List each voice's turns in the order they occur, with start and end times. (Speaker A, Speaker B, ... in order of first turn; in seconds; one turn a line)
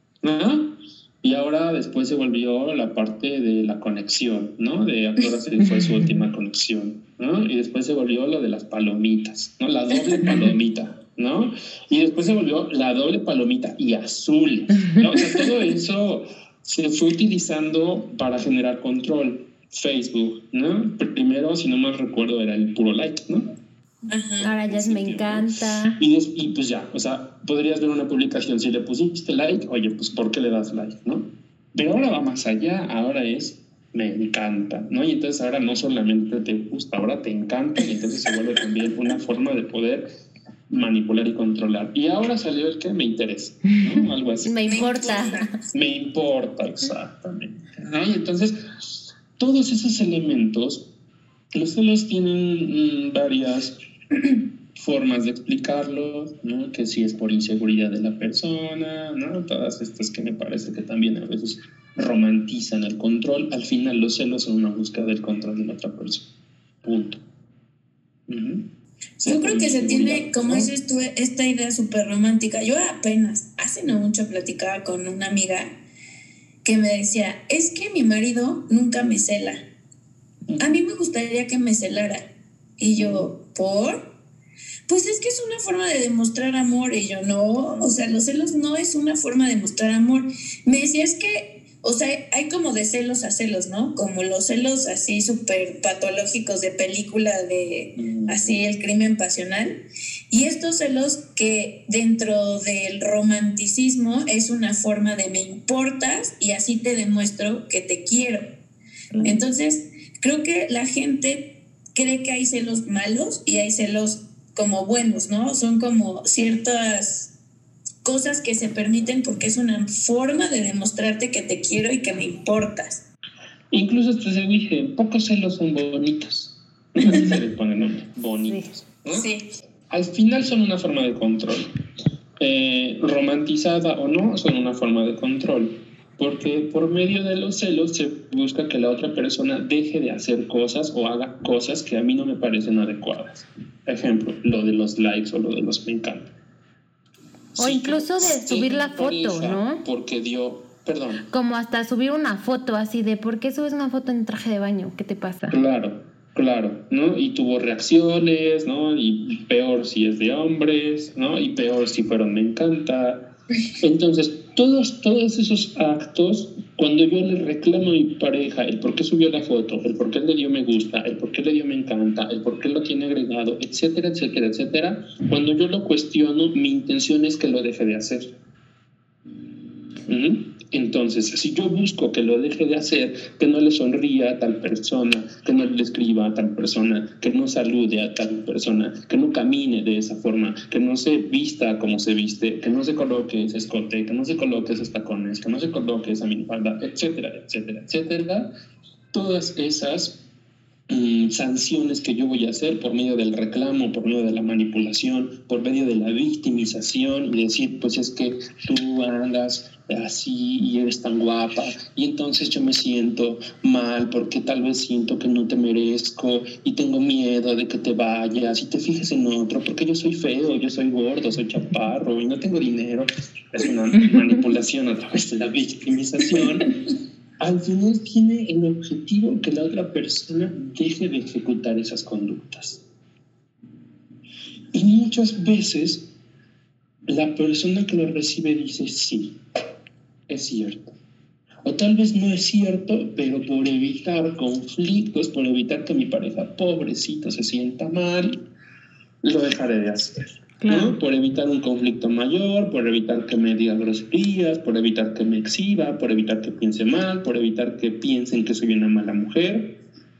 Speaker A: 0.2-23.5
Speaker B: 24.1-24.5
Speaker A: 24.4-40.1
Speaker C: 24.4-26.0
Speaker A: 40.7-45.1
Speaker C: 44.4-45.4
Speaker B: 44.7-45.5
Speaker A: 45.7-50.9
Speaker A: 51.5-53.8
Speaker A: 54.7-66.3
Speaker A: 66.8-67.2
Speaker A: 68.3-68.7
Speaker B: 69.2-75.7
Speaker A: 69.2-70.7
Speaker B: 76.6-79.6
Speaker A: 80.5-80.8
Speaker B: 80.6-82.3
Speaker B: 82.8-84.1
Speaker A: 83.0-83.3
Speaker B: 84.9-108.5
Speaker A: 98.0-98.6
Speaker B: 109.2-117.3
Speaker B: 118.0-123.0
Speaker A: 123.7-129.3
Speaker B: 129.1-129.4
Speaker A: 129.9-131.7
Speaker A: 132.4-146.3
Speaker A: 147.5-151.2
Speaker C: 147.6-149.8
Speaker C: 151.3-155.6
Speaker A: 155.5-178.3
Speaker A: 180.1-198.5
Speaker A: 199.1-200.2
Speaker A: 200.9-226.7
Speaker A: 227.4-232.8
Speaker A: 234.7-236.1
Speaker A: 237.1-239.4
Speaker A: 240.3-240.9
Speaker A: 241.6-248.4
Speaker A: 249.2-259.8
Speaker C: 250.6-250.9